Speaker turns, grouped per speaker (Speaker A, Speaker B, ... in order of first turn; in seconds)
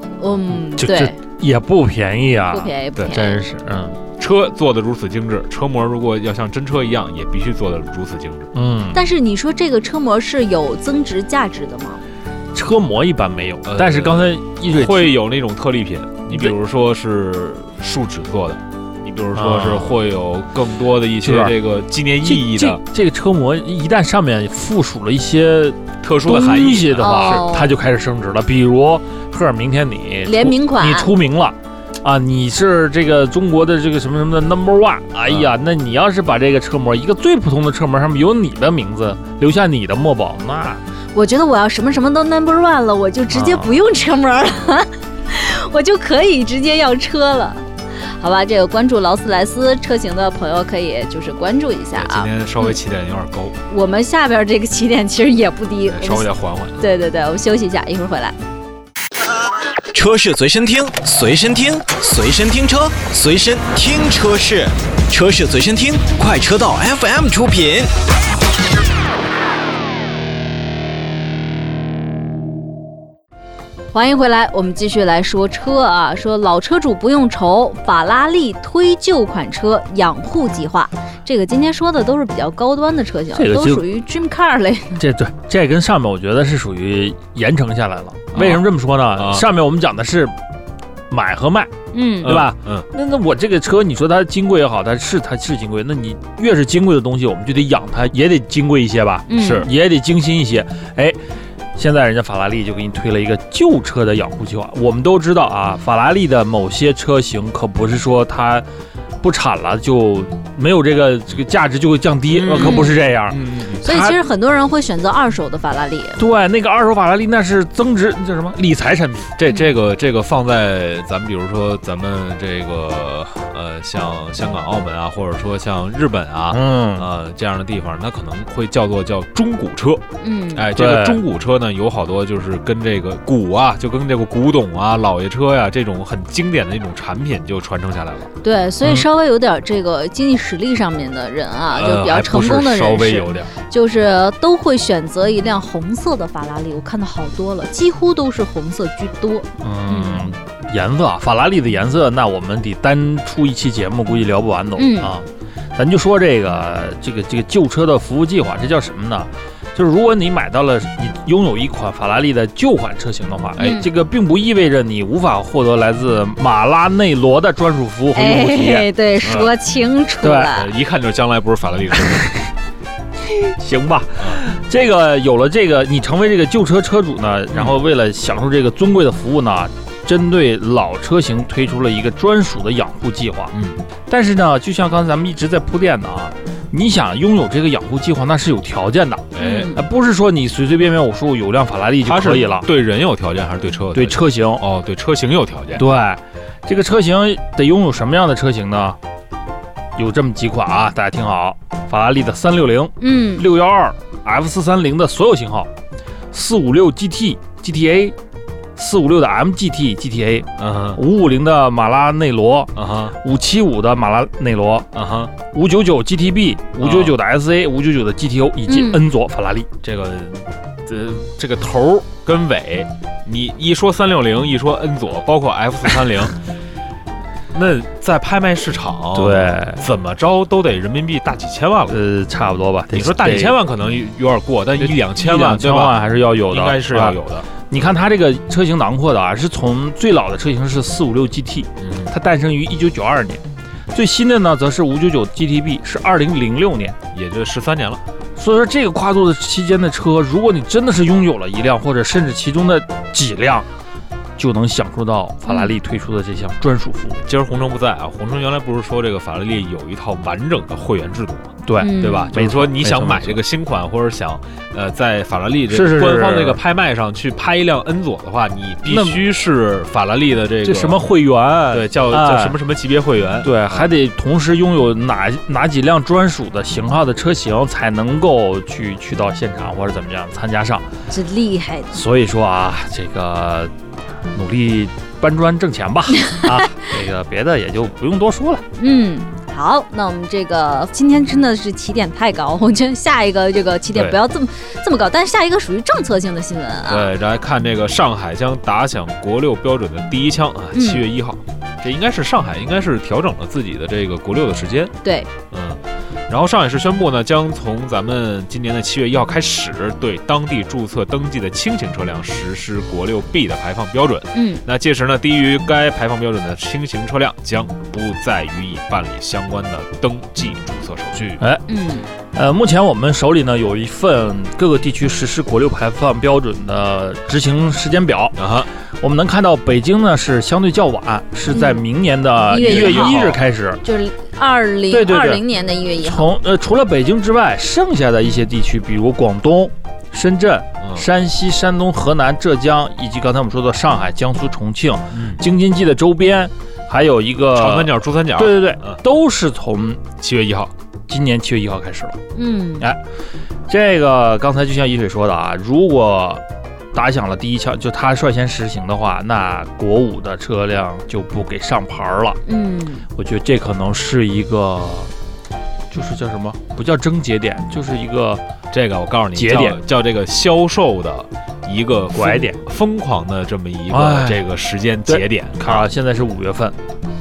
Speaker A: 0.2-1.1, 2.5-3.4, 8.9-12.0, 27.0-27.7, 30.2-31.1, 41.1-52.7, 53.7-58.4, 73.9-85.0, 91.9-92.3, 99.3-99.7, 112.6-112.9, 113.8-116.2, 130.2-130.7, 138.4-150.2, 154.8-155.1, 163.6-163.8, 168.1-170.7, 189.4-189.8, 203.0-203.4, 218.7-219.0, 255.5-255.7, 261.8-262.3, 281.1-282.0, 288.8-297.1, 300.7-301.0, 305.0-305.3, 314.3-314.6, 321.7-322.1, 331.5-331.8, 332.5-333.3, 333.8-336.3, 352.3-352.9, 362.4-363.1
Speaker B: 0.5-4.0, 8.5-9.0, 12.5-15.2, 19.3-20.0, 21.2-21.5, 22.2-40.8, 43.3-43.8, 83.3-83.8, 85.0-90.3, 91.1-101.2, 101.8-108.7, 109.2-114.2, 116.2-119.3, 126.5-127.1, 130.7-131.2, 149.6-168.9, 170.2-170.5, 173.2-183.5, 184.1-192.7, 193.9-194.6, 195.8-199.0, 199.9-205.7, 206.3-208.2, 208.8-214.9, 215.4-219.7, 229.1-229.9, 231.9-233.6, 234.8-247.0, 248.4-253.7, 254.4-257.2, 261.6-263.4, 265.7-266.6, 268.9-269.2, 270.6-272.6, 273.4-280.9, 281.9-283.7, 284.3-288.6, 322.3-328.4, 328.9-333.8, 334.9-335.4, 336.0-350.0, 351.1-352.2, 353.7-356.4, 356.9-362.4, 363.1-365.1, 365.9-368.4, 369.3-369.8, 372.1-372.6, 373.9-374.4, 375.1-376.8
Speaker C: 4.2-8.5, 13.6-22.8, 26.0-27.4, 35.3-35.5, 51.9-53.6, 55.9-56.8, 88.3-89.5, 92.2-92.8, 99.4-99.7, 112.3-113.8, 119.3-130.0, 130.5-138.3, 141.7-143.5, 169.2-169.5, 170.5-172.3, 177.5-177.8, 183.5-183.8, 189.3-189.7, 192.0-195.8, 210.6-211.0, 212.8-213.1, 214.9-215.3, 216.8-217.2, 219.8-226.4, 227.5-232.0, 232.9-237.5, 241.8-242.1, 247.1-248.0, 257.2-271.1, 271.7-273.9, 296.9-304.9, 305.5-321.4, 328.4-328.7, 332.6-333.4, 345.1-345.4, 347.5-349.0, 350.2-350.7, 368.7-375.9
Speaker D: 59.9-67.9